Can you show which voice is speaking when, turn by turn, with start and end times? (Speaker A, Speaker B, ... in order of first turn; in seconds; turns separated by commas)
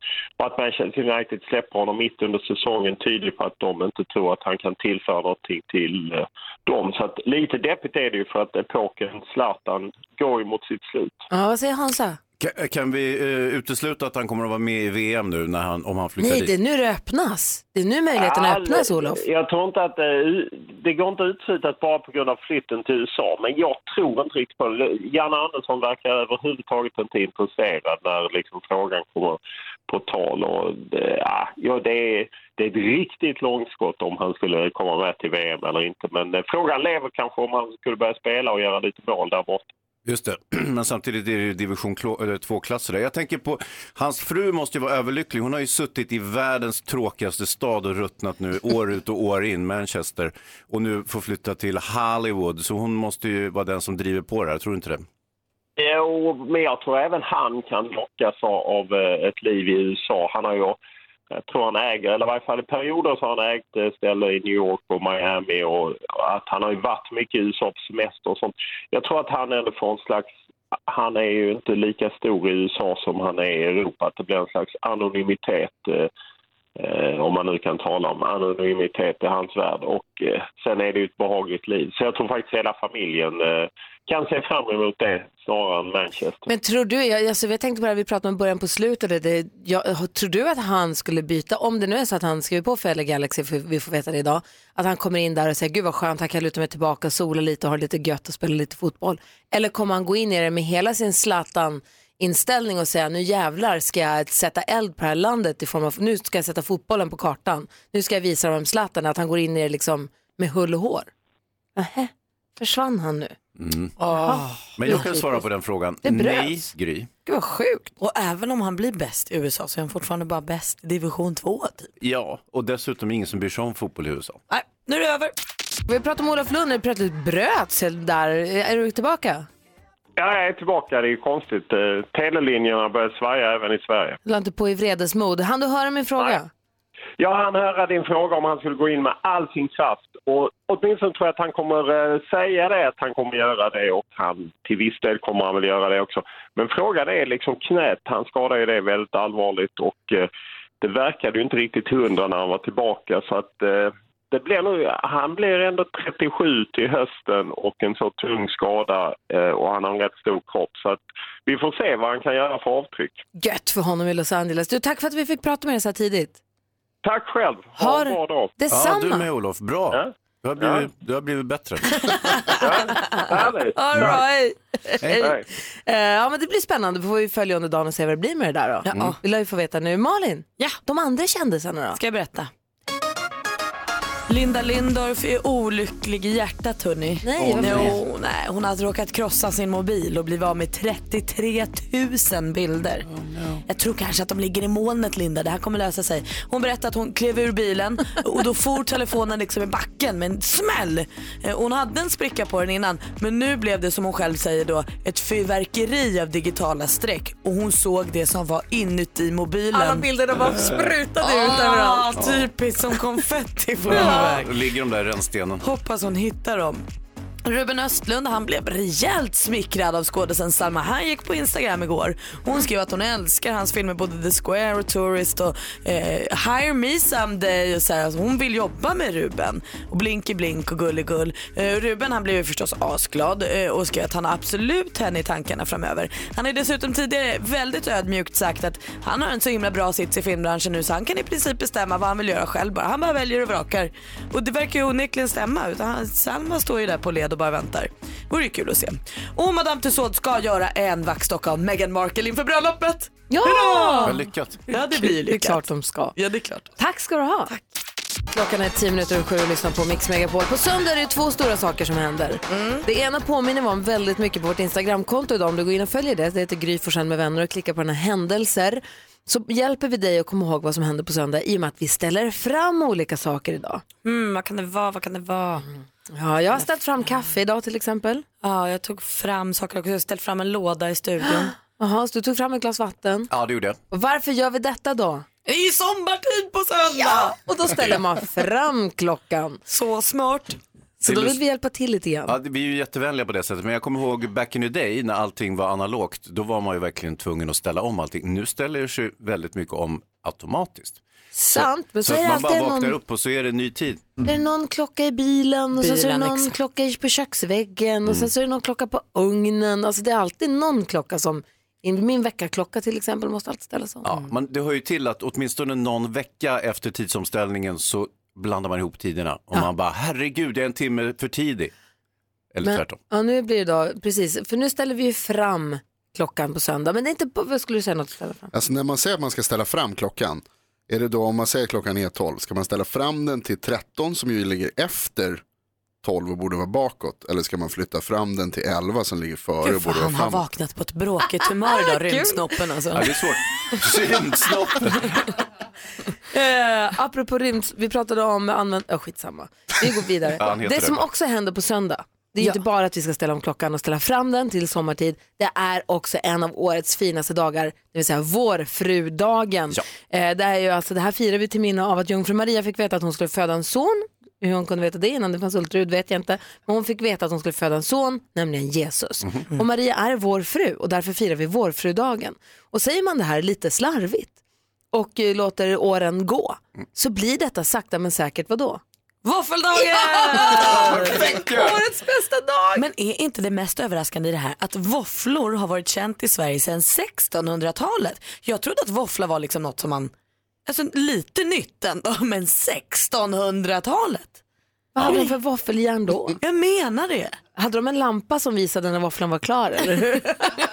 Speaker A: 0.4-11.2, Speaker B: 11.3-12.2, Speaker C: 12.4-16.5, Speaker B: 16.2-19.2, Speaker A: 18.1-29.4, Speaker A: 29.9-39.7, Speaker C: 40.0-55.0, Speaker A: 55.8-60.8, Speaker A: 61.4-70.3, Speaker A: 70.9-76.1, Speaker A: 76.8-86.5, Speaker B: 86.5-111.1, Speaker B: 111.8-113.3, Speaker C: 113.6-113.9, Speaker D: 114.0-114.6, Speaker B: 114.1-115.4, Speaker C: 114.8-117.1, Speaker B: 116.0-116.7, Speaker B: 117.2-117.9, Speaker D: 118.0-121.9, Speaker C: 122.0-124.4, Speaker D: 124.5-125.3, Speaker B: 125.9-129.5, Speaker A: 130.2-134.2, Speaker B: 134.2-136.5, Speaker A: 137.2-150.3, Speaker A: 150.8-163.2, Speaker B: 163.3-166.4, Speaker A: 167.0-168.5, Speaker B: 167.8-169.3, Speaker C: 168.7-172.0, Speaker A: 170.6-170.9, Speaker A: 172.6-173.8, Speaker B: 173.7-182.0, Speaker C: 173.9-174.2, Speaker C: 175.0-175.3, Speaker D: 178.8-179.2, Speaker C: 178.9-179.2, Speaker D: 181.9-182.5, Speaker D: 184.3-193.1, Speaker B: 187.2-188.0, Speaker C: 187.4-188.0, Speaker C: 193.1-193.6, Speaker D: 193.7-210.6, Speaker B: 209.7-212.1, Speaker C: 210.4-210.9, Speaker D: 211.2-214.5, Speaker C: 212.1-212.5, Speaker C: 213.8-215.6, Speaker B: 213.9-214.3, Speaker D: 215.6-216.8, Speaker D: 217.4-255.6, Speaker B: 253.3-254.2, Speaker C: 254.0-254.6, Speaker B: 254.7-256.1, Speaker D: 256.1-256.7, Speaker B: 256.8-257.5, Speaker B: 258.3-273.8, Speaker D: 262.5-262.8, Speaker D: 274.0-275.7, Speaker B: 276.1-278.2, Speaker D: 278.4-281.5, Speaker B: 281.7-283.3, Speaker C: 283.3-283.8, Speaker B: 283.9-285.2, Speaker D: 285.4-287.3, Speaker B: 287.0-289.6, Speaker D: 289.7-290.6, Speaker B: 291.0-292.4, Speaker C: 291.0-291.4, Speaker C: 292.3-301.0, Speaker B: 301.3-303.0, Speaker C: 301.5-304.1, Speaker B: 304.2-314.1, Speaker D: 305.8-306.5, Speaker C: 314.0-321.7, Speaker C: 322.5-323.0, Speaker B: 322.6-328.5, Speaker E: 328.5-335.4, Speaker E: 336.0-340.4, Speaker D: 339.6-343.1, Speaker C: 342.9-345.2, Speaker B: 346.3-374.4, Speaker C: 350.4-351.0, Speaker B: 374.9-378.8, Speaker D: 379.2-381.3, Speaker B: 379.7-382.8, Speaker C: 380.5-381.8, Speaker D: 382.7-390.1, Speaker D: 390.6-394.4, Speaker B: 394.9-396.4, Speaker D: 395.0-395.3, Speaker D: 396.4-397.4, Speaker B: 397.6-400.4